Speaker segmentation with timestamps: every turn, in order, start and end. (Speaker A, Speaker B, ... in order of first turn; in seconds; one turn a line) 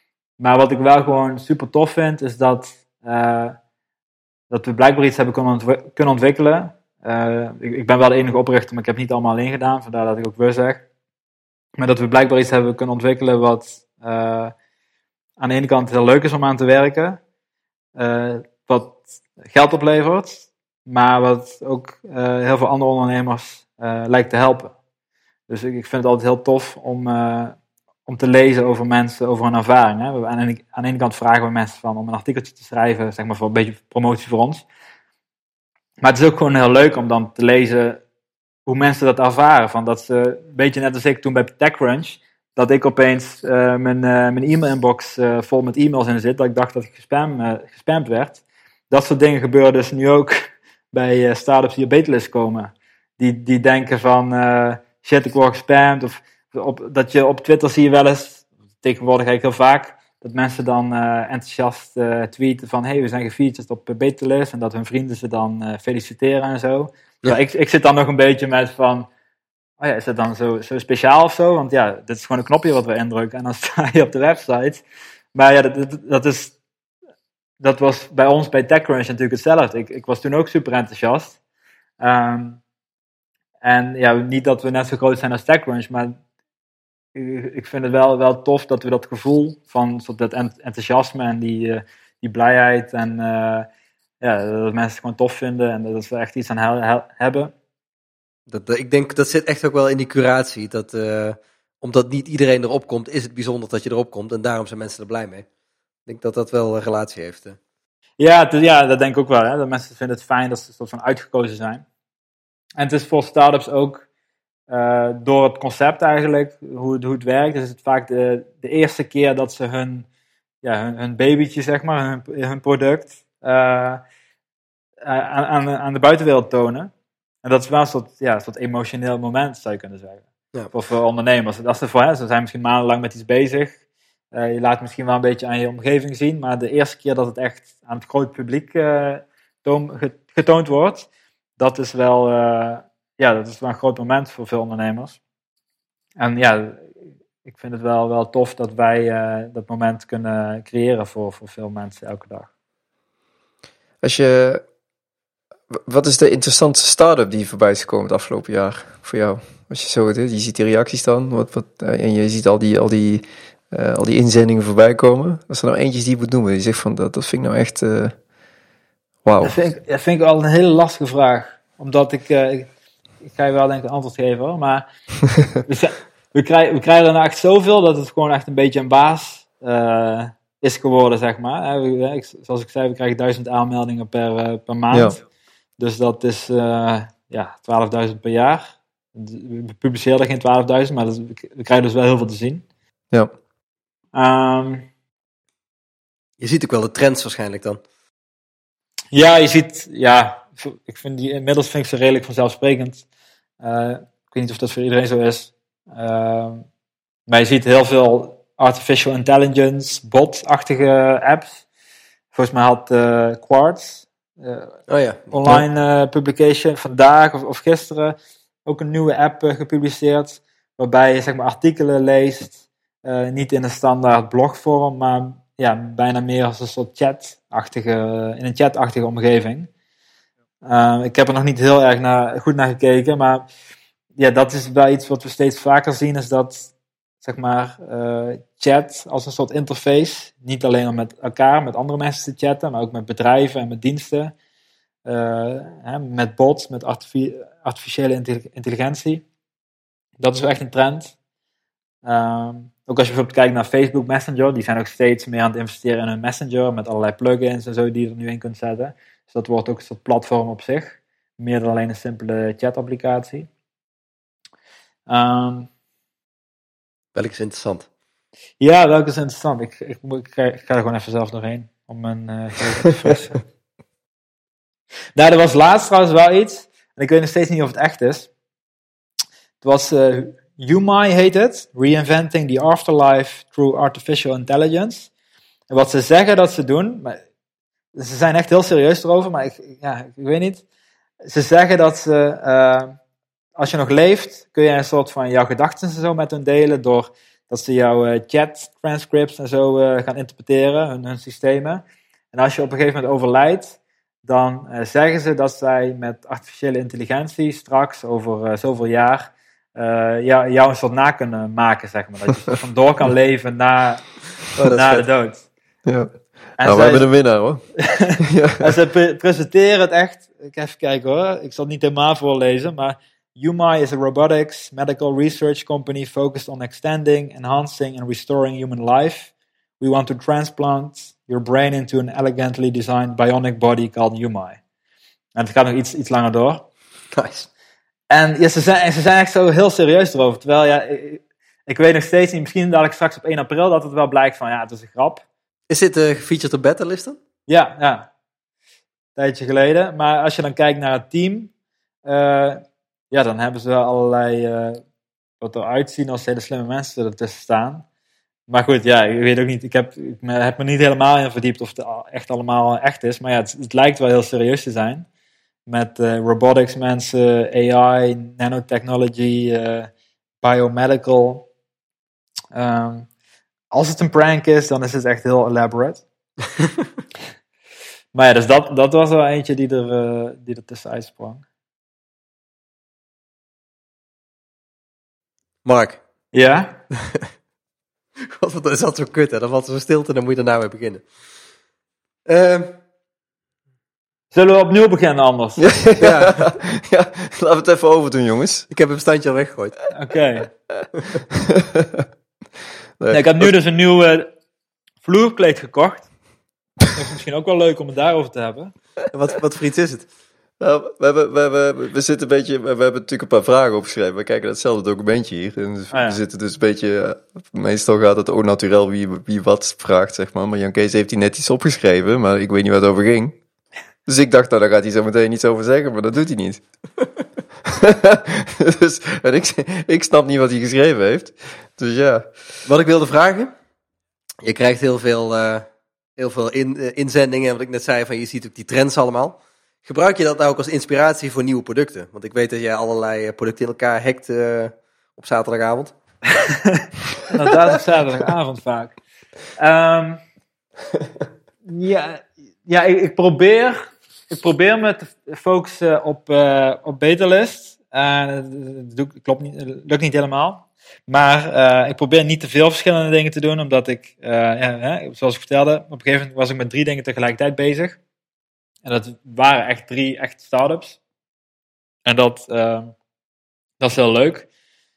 Speaker A: 0.4-3.6
Speaker A: 4.5-10.8
Speaker A: 11.8-14.5
Speaker A: 15.4-17.2
Speaker A: 17.9-24.7
Speaker A: 25.5-34.6
Speaker A: 36.0-38.0
Speaker A: 38.6-69.1
Speaker A: 69.8-74.8
Speaker A: 75.3-76.5
Speaker A: 77.6-81.4
Speaker A: 82.0-82.6
Speaker A: 83.6-86.2
Speaker A: 87.1-93.7
Speaker A: 94.2-97.5
Speaker B: 98.5-105.5
Speaker B: 106.0-107.6
Speaker A: 108.2-111.8
Speaker A: 112.8-114.0
Speaker A: 114.7-120.1
Speaker A: 120.6-124.0
Speaker A: 125.0-126.9
Speaker A: 127.4-133.8
Speaker A: 134.3-145.2
Speaker A: 146.2-146.9
Speaker A: 147.4-152.5
Speaker C: 154.0-154.6
Speaker C: 155.7-168.1
Speaker C: 169.2-169.6
Speaker A: 169.4-172.7
Speaker A: 173.2-174.8
Speaker A: 175.6-185.2
Speaker C: 184.9-185.2
Speaker A: 185.8-192.6
Speaker A: 194.1-194.9
Speaker B: 196.4-197.8
Speaker A: 199.1-203.0
Speaker A: 203.6-206.6
Speaker A: 207.3-211.6
Speaker A: 212.3-214.8
Speaker B: 214.9-215.3
Speaker A: 215.3-229.7
Speaker A: 230.6-233.5
Speaker A: 234.2-236.7
Speaker A: 237.2-244.3
Speaker A: 245.0-249.2
Speaker A: 250.2-251.1
Speaker A: 252.0-263.5
Speaker A: 265.1-265.7
Speaker B: 267.1-267.9
Speaker A: 268.6-273.4
Speaker A: 275.1-278.3
Speaker A: 279.6-285.1
Speaker A: 285.7-287.2
Speaker A: 287.9-290.6
Speaker A: 291.2-292.9
Speaker A: 293.6-315.4
Speaker B: 314.5-315.0
Speaker C: 315.8-318.7
Speaker A: 316.6-334.6
Speaker A: 335.3-336.7
Speaker B: 337.1-337.5
Speaker A: 338.1-345.2
Speaker B: 345.7-347.2
Speaker A: 347.5-348.1
Speaker A: 349.1-351.5
Speaker A: 352.0-354.8
Speaker A: 355.4-357.8
Speaker A: 358.5-365.1
Speaker A: 365.6-369.9
Speaker A: 370.4-371.5
Speaker A: 372.5-373.1
Speaker A: 373.7-376.0
Speaker A: 378.1-381.4
Speaker B: 385.6-386.0
Speaker A: 386.3-386.8
Speaker B: 387.0-387.3
Speaker B: 388.2-391.1
Speaker B: 392.2-392.8
Speaker A: 394.3-395.7
Speaker C: 395.6-398.7
Speaker B: 396.0-396.5
Speaker B: 398.7-399.8
Speaker A: 399.9-400.5
Speaker C: 401.4-402.1
Speaker C: 403.0-403.5
Speaker A: 403.1-404.3
Speaker A: 405.0-406.1
Speaker A: 406.9-408.7
Speaker B: 409.1-410.1
Speaker C: 410.6-423.4
Speaker A: 415.9-416.2
Speaker C: 424.1-426.6
Speaker C: 427.6-432.3
Speaker B: 432.6-433.5
Speaker B: 434.4-445.9
Speaker A: 446.6-448.9
Speaker A: 449.6-450.2
Speaker A: 451.6-468.0
Speaker A: 468.8-471.0
Speaker A: 472.0-472.9
Speaker A: 473.8-474.5